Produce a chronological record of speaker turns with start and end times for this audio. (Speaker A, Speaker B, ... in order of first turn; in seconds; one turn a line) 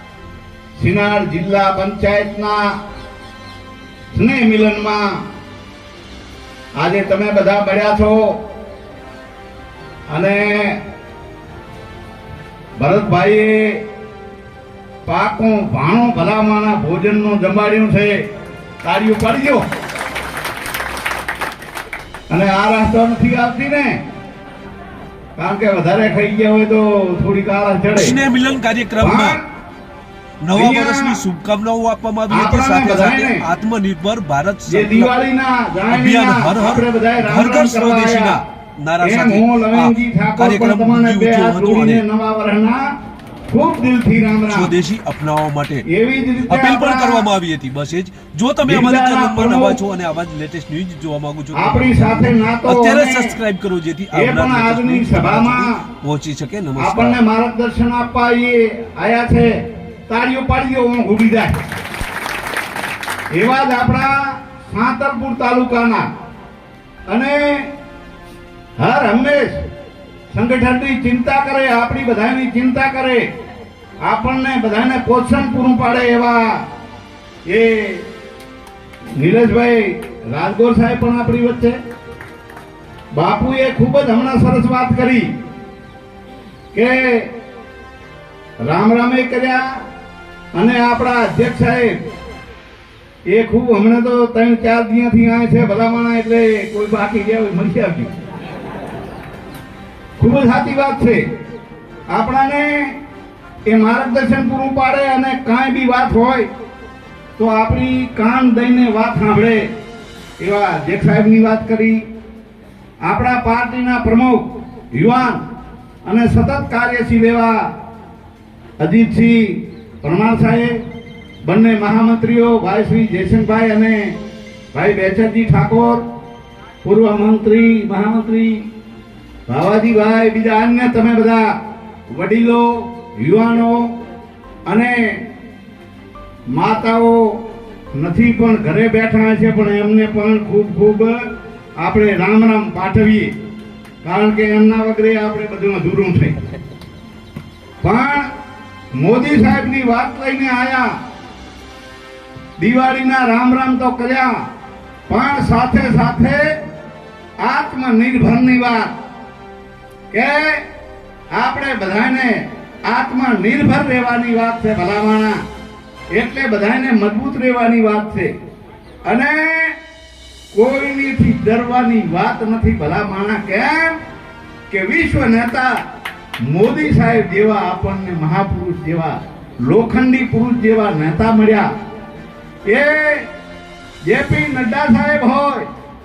Speaker A: 0.8-2.6
Speaker A: 4.1-5.0
Speaker A: 6.8-8.4
Speaker A: 10.1-10.8
Speaker A: 12.8-13.8
Speaker A: 15.1-18.2
Speaker A: 18.8-19.6
Speaker A: 22.3-24.0
Speaker A: 25.4-28.2
Speaker B: 27.9-29.4
Speaker A: 29.0-29.4
Speaker B: 30.4-35.1
Speaker A: 30.5-31.2
Speaker A: 32.3-33.4
Speaker A: 34.7-38.4
Speaker B: 35.9-42.0
Speaker A: 39.0-42.8
Speaker A: 43.5-44.7
Speaker B: 44.5-45.8
Speaker A: 45.9-47.3
Speaker B: 46.5-57.2
Speaker A: 48.6-49.8
Speaker A: 51.5-53.4
Speaker A: 54.1-55.7
Speaker A: 56.8-59.5
Speaker A: 60.1-61.6
Speaker A: 63.3-66.0
Speaker A: 67.1-67.7
Speaker A: 68.8-69.6
Speaker A: 70.3-73.2
Speaker A: 74.0-76.4
Speaker A: 77.5-78.0
Speaker A: 79.2-81.8
Speaker A: 83.1-85.3
Speaker A: 86.7-87.3
Speaker A: 88.6-89.6
Speaker A: 90.5-92.0
Speaker A: 93.2-98.1
Speaker A: 100.2-101.2
Speaker A: 102.1-102.9
Speaker A: 103.7-106.5
Speaker A: 107.4-109.6
Speaker A: 110.4-112.0
Speaker A: 113.0-115.4
Speaker A: 116.0-117.6
Speaker A: 118.8-120.7
Speaker A: 121.4-124.1
Speaker A: 124.7-126.0
Speaker A: 126.8-128.6
Speaker A: 129.5-131.4
Speaker A: 132.1-133.9
Speaker A: 134.7-135.2
Speaker A: 136.5-137.2
Speaker A: 137.9-141.1
Speaker A: 141.8-143.3
Speaker A: 144.0-146.3
Speaker A: 147.8-148.3
Speaker A: 148.9-150.9
Speaker A: 152.6-154.3
Speaker A: 155.1-156.4
Speaker A: 157.4-158.9
Speaker A: 160.1-160.6
Speaker A: 161.3-165.4
Speaker A: 166.1-168.3
Speaker A: 169.0-169.7
Speaker A: 170.5-174.0
Speaker A: 174.7-175.7
Speaker A: 176.4-181.7
Speaker A: 182.7-183.3
Speaker A: 184.0-185.7